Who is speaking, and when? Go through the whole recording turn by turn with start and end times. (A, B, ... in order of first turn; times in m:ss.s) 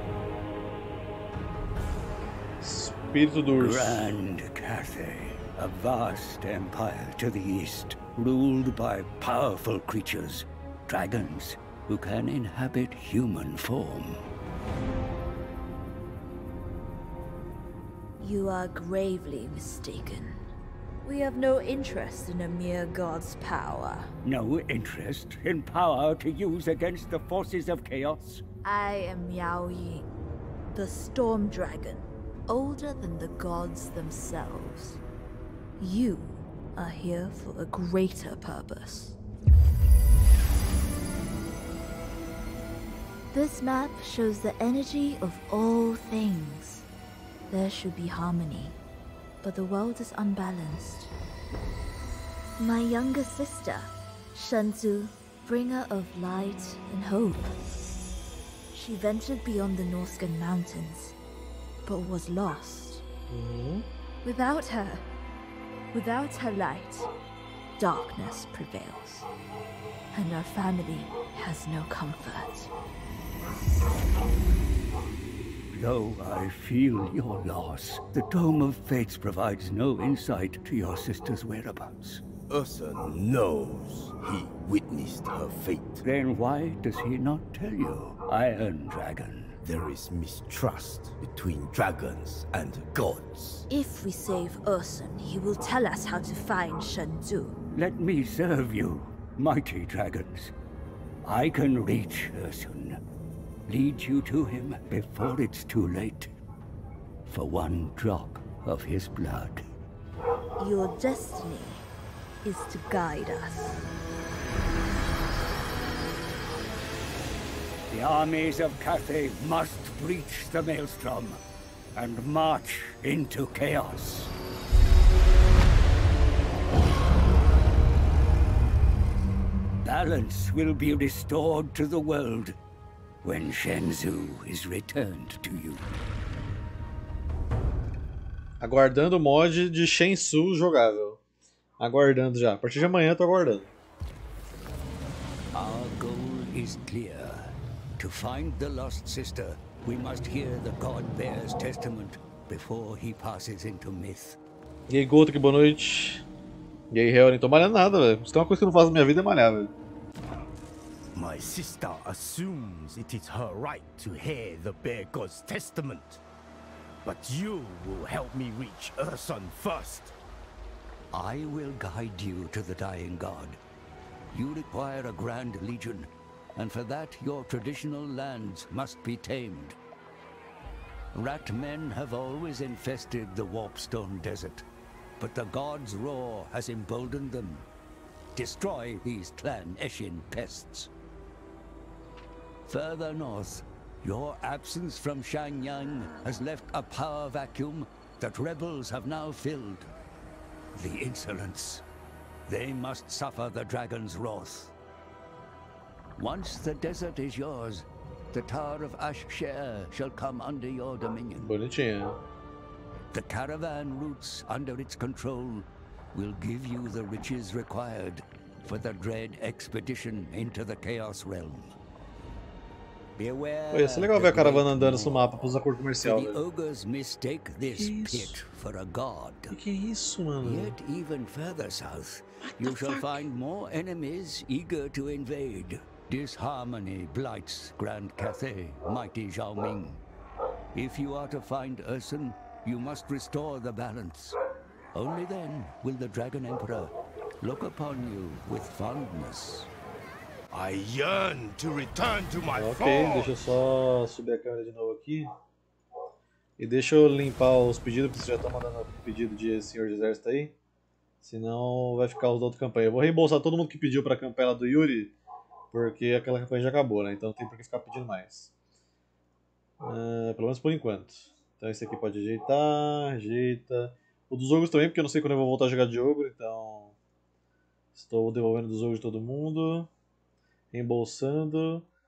0:02.6-0:04.0 A
0:03.6-0:14.2 B
0:18.2-0:20.4 C
0:21.0-0:24.1 C
0:24.2-0:28.4 B
0:28.6-0:30.1 C
0:30.7-0:35.0 C
0:35.8-0:39.2 C
0:43.3-0:46.9 C
0:47.5-0:48.8 C
0:49.4-0:51.1 C
0:52.6-0:57.5 C
0:58.7-1:01.2 C
1:01.8-1:03.0 C
1:03.3-1:03.8 A
1:04.2-1:05.1 C
1:05.9-1:07.1 C
1:07.8-1:09.3 C
1:10.1-1:12.7 C
1:15.7-1:22.2 B
1:22.5-1:26.0 D
1:26.0-1:29.6 B
1:29.6-1:33.6 D
1:33.7-1:37.6 C
1:37.7-1:40.5 B
1:41.2-1:43.0 B
1:43.7-1:46.3 B
1:47.3-1:49.6 B
1:50.6-1:51.9 C
1:52.4-1:53.9 C
1:57.9-2:01.4 B
2:02.0-2:04.3 B
2:09.8-2:12.6 B
2:13.2-2:15.8 B
2:18.6-2:21.2 A
2:21.8-2:23.7 A
2:25.5-2:34.4 B
2:34.9-2:36.2 A
2:36.9-2:39.7 A
2:41.1-2:46.2 D
2:47.0-2:50.1 D
2:51.1-2:53.6 B
2:54.3-2:59.8 B
3:01.1-3:04.6 B
3:05.2-3:07.6 B
3:08.3-3:10.9 B
3:12.7-3:19.9 B
3:20.7-3:21.8 B
3:22.5-3:24.7 B
3:26.2-3:31.5 B
3:31.4-3:32.2 A
3:33.1-3:41.7 B
3:43.2-3:45.2 B
3:43.7-3:46.4 A
3:46.0-3:49.6 B
3:47.7-3:48.4 A
3:49.5-3:50.7 A
3:50.4-4:00.0 B
4:00.7-4:04.4 B
4:04.9-4:09.7 B
4:10.5-4:13.3 D
4:12.5-4:15.3 A
4:16.6-4:20.5 A
4:21.2-4:25.1 A
4:25.7-4:28.5 A
4:29.8-4:36.9 A
4:37.9-4:39.9 A
4:40.7-4:41.8 A